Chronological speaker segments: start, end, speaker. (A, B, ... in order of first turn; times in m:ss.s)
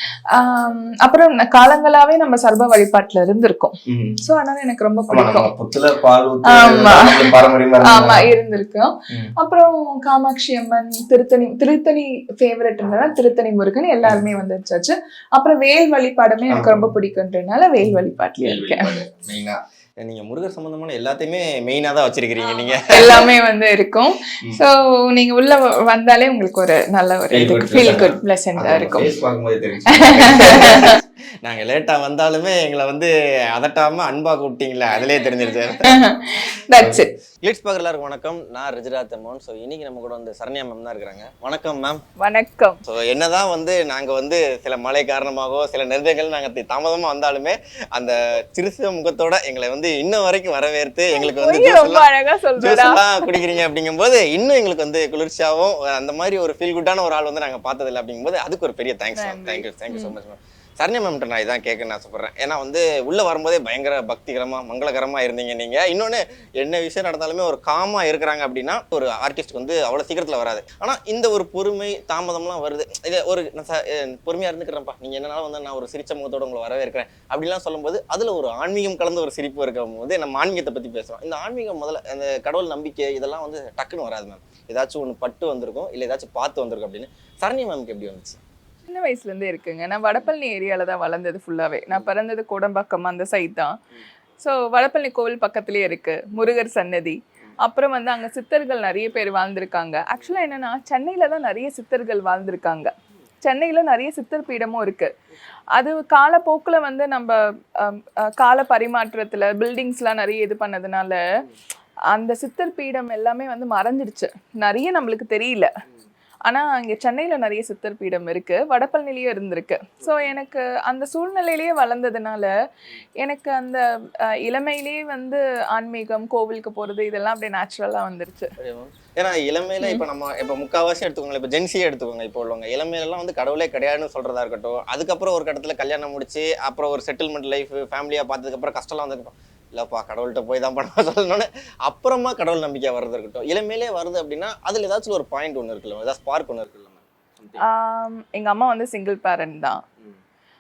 0:00.3-0:05.5 A
0:03.9-0:04.2 B
0:05.1-0:08.3 B
0:06.4-0:07.3 A
0:07.8-0:18.9 A
0:16.5-0:16.9 B
0:17.8-0:23.3 B
0:22.9-0:29.1 A
0:27.3-0:36.0 B
0:29.9-0:31.0 A
0:35.9-0:37.1 A
0:36.8-0:42.0 B
0:42.2-0:42.8 A
0:42.8-1:28.4 B
0:51.1-0:53.3 A
0:59.2-1:00.1 A
1:28.9-1:33.8 A
1:34.4-1:42.9 A
1:43.4-1:45.1 A
1:45.8-1:51.2 A
1:52.1-1:55.7 A
1:56.5-2:02.5 A
2:03.2-2:08.5 A
2:08.6-2:27.6 B
2:27.6-2:29.8 A